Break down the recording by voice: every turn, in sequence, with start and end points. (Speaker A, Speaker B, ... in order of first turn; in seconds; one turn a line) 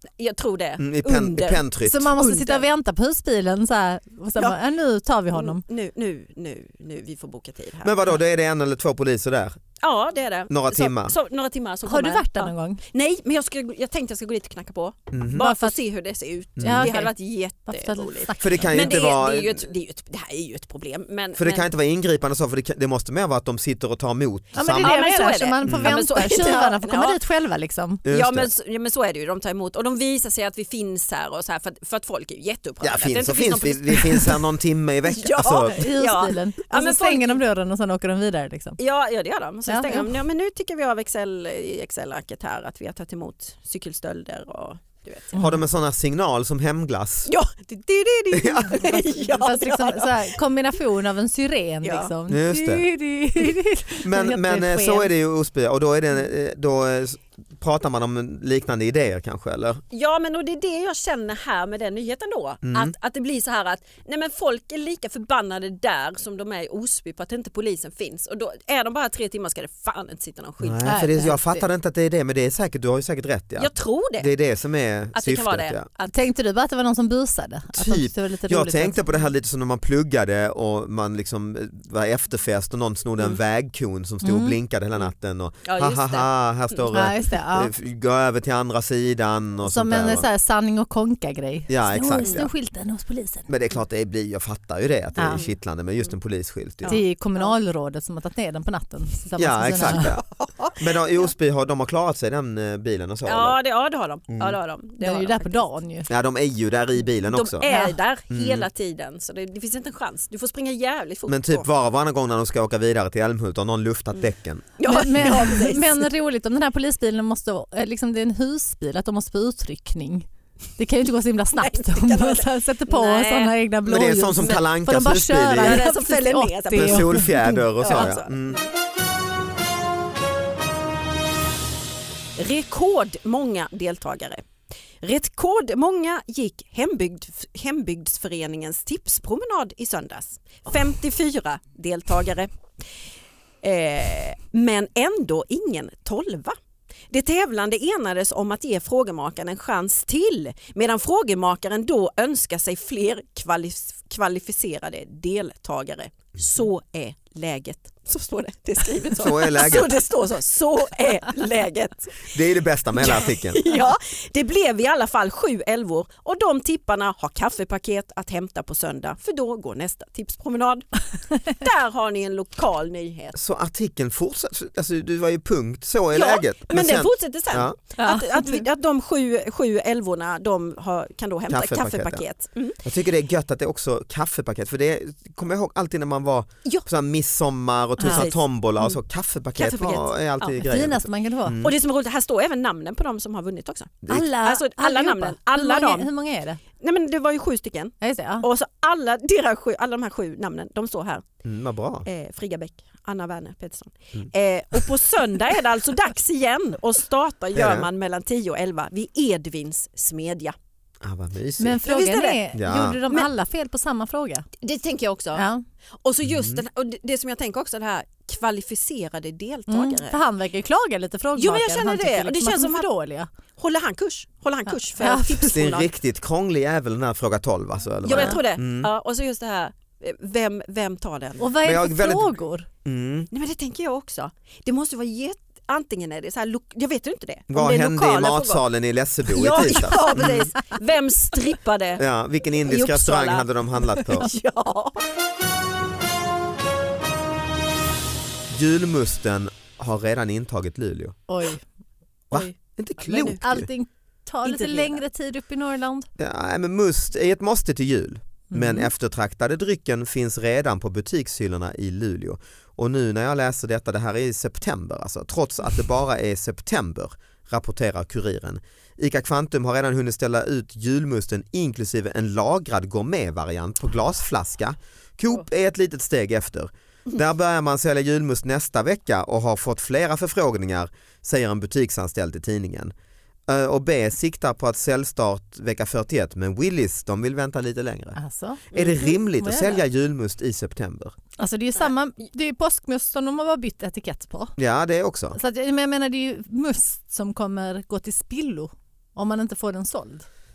Speaker A: 0.2-2.7
Speaker B: 0.8-2.1
Speaker C: 1.8-5.6
Speaker A: 5.3-8.0
Speaker B: 7.8-9.6
Speaker A: 9.8-21.7
Speaker B: 10.5-11.2
Speaker C: 11.9-12.8
Speaker B: 15.1-15.4
Speaker C: 15.3-15.8
Speaker B: 16.6-16.9
Speaker C: 16.6-17.1
Speaker C: 17.7-18.8
Speaker B: 18.4-19.7
Speaker B: 21.4-25.1
Speaker C: 24.6-28.0
Speaker A: 24.6-27.2
Speaker B: 25.6-26.0
Speaker B: 28.1-28.5
Speaker A: 28.1-34.4
Speaker B: 32.8-35.9
Speaker A: 35.1-37.4
Speaker C: 35.6-38.8
Speaker A: 38.8-45.4
Speaker C: 39.7-40.1
Speaker C: 45.4-45.6
Speaker B: 45.4-47.3
Speaker A: 47.3-50.4
Speaker B: 48.3-48.8
Speaker C: 48.8-55.1
Speaker A: 51.8-52.1
Speaker B: 52.3-52.9
Speaker B: 54.0-59.8
Speaker A: 59.9-71.0
Speaker B: 62.6-62.9
Speaker B: 70.6-75.8
Speaker C: 70.8-71.6
Speaker A: 73.6-74.3
Speaker A: 75.1-76.2
Speaker C: 76.1-79.2
Speaker B: 77.7-90.3
Speaker C: 84.2-84.6
Speaker A: 85.7-86.9
Speaker C: 86.9-87.7
Speaker C: 89.6-93.5
Speaker B: 91.7-92.5
Speaker A: 92.2-92.5
Speaker B: 93.5-97.0
Speaker C: 95.2-95.4
Speaker A: 96.8-97.5
Speaker C: 96.9-100.2
Speaker B: 99.4-100.2
Speaker A: 100.3-100.8
Speaker B: 100.8-103.6
Speaker A: 103.2-105.7
Speaker B: 104.3-104.6
Speaker C: 105.0-106.1
Speaker B: 106.1-107.7
Speaker A: 107.3-111.7
Speaker C: 107.6-108.0
Speaker B: 108.3-108.7
Speaker B: 111.3-114.7
Speaker A: 114.8-116.1
Speaker C: 114.9-128.1
Speaker A: 121.6-123.5
Speaker B: 123.8-125.8
Speaker A: 125.6-128.6
Speaker B: 126.7-128.6
Speaker A: 132.4-134.4
Speaker A: 135.0-142.5
Speaker A: 143.6-146.6
Speaker A: 147.1-162.3
Speaker B: 159.2-160.0
Speaker B: 162.3-163.6
Speaker A: 163.0-170.9
Speaker A: 171.5-173.3
Speaker B: 173.3-177.8
Speaker A: 176.1-182.8
Speaker C: 178.0-178.6
Speaker B: 181.5-182.2
Speaker B: 182.8-191.8
Speaker C: 188.0-188.3
Speaker A: 188.1-189.0
Speaker A: 189.6-190.6
Speaker C: 190.6-191.6
Speaker A: 191.6-196.1
Speaker C: 194.1-196.6
Speaker A: 196.8-201.3
Speaker C: 198.0-198.5
Speaker B: 201.4-202.1
Speaker A: 202.1-210.6
Speaker B: 207.6-207.9
Speaker B: 211.0-211.8
Speaker C: 211.6-214.5
Speaker A: 211.8-212.4
Speaker B: 212.5-213.0
Speaker A: 214.6-215.4
Speaker C: 215.3-215.6
Speaker A: 216.0-220.2
Speaker B: 216.2-216.6
Speaker C: 219.7-223.3
Speaker A: 221.4-222.9
Speaker A: 223.6-225.9
Speaker C: 224.9-225.6
Speaker B: 225.5-228.9
Speaker A: 228.0-231.5
Speaker C: 231.4-232.7
Speaker B: 231.6-232.3
Speaker B: 232.8-233.3
Speaker A: 233.3-238.7
Speaker B: 237.5-240.5
Speaker A: 239.3-242.0
Speaker B: 242.0-244.3
Speaker A: 242.6-243.5
Speaker A: 244.1-245.0
Speaker B: 248.5-251.2
Speaker C: 251.3-251.6
Speaker A: 252.3-253.4
Speaker B: 252.3-253.7
Speaker C: 253.4-256.1
Speaker A: 254.4-255.0
Speaker B: 256.2-282.9
Speaker C: 258.5-258.9
Speaker B: 283.5-288.2
Speaker C: 288.2-289.8
Speaker B: 288.7-291.2
Speaker C: 291.4-294.5
Speaker B: 294.6-295.4
Speaker C: 295.3-300.3